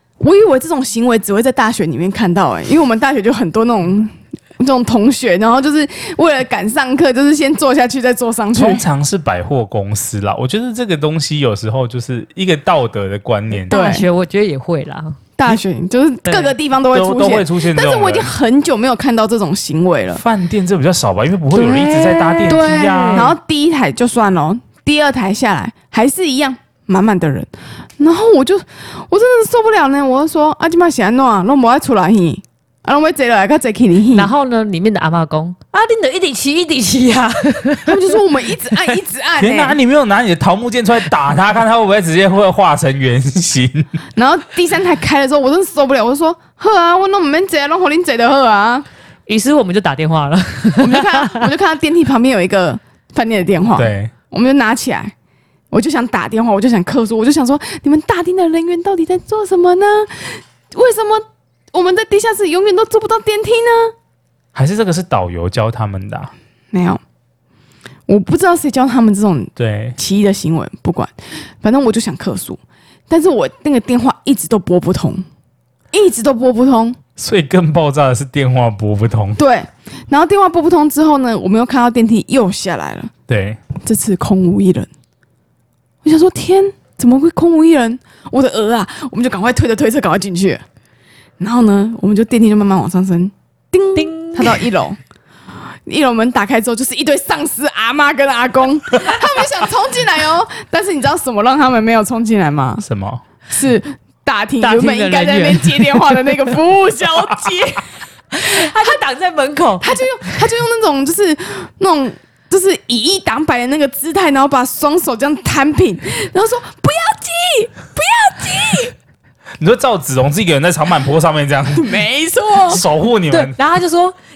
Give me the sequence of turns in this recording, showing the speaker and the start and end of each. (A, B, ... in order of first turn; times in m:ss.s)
0:00.2-0:08.8 A
0:08.5-0:13.8 B
0:13.7-0:15.2 C
0:13.7-0:14.0 A
0:15.4-0:20.2 A
0:16.2-0:16.5 C
0:16.9-0:18.3 B
0:20.1-0:23.3 B
0:21.5-0:23.3 C
0:22.5-0:34.3 A
0:34.1-0:38.9 C
0:37.8-0:39.8 A
0:39.4-0:44.0 B
0:44.2-0:48.8 A
0:49.3-0:51.5 C
0:50.8-0:55.1 A
0:53.7-0:54.1 B
0:55.7-1:03.9 A
1:04.5-1:06.3 B
1:06.7-1:07.0 A
1:08.1-1:15.2 A
1:09.6-1:10.0 B
1:15.9-1:17.0 A
1:17.2-1:19.4 B
1:19.4-1:23.1 A
1:23.3-1:23.6 B
1:23.8-1:24.9 A
1:26.0-1:30.6 A
1:31.4-1:35.0 A
1:33.9-1:34.7 C
1:35.8-1:42.8 A
1:42.8-1:43.2 B
1:43.5-1:47.9 A
1:44.6-1:46.4 C
1:48.3-1:50.5 C
1:48.5-1:49.0 A
1:49.8-1:58.9 A
1:59.6-2:01.9 B
2:01.7-2:02.8 A
2:02.7-2:03.6 B
2:03.3-2:04.1 C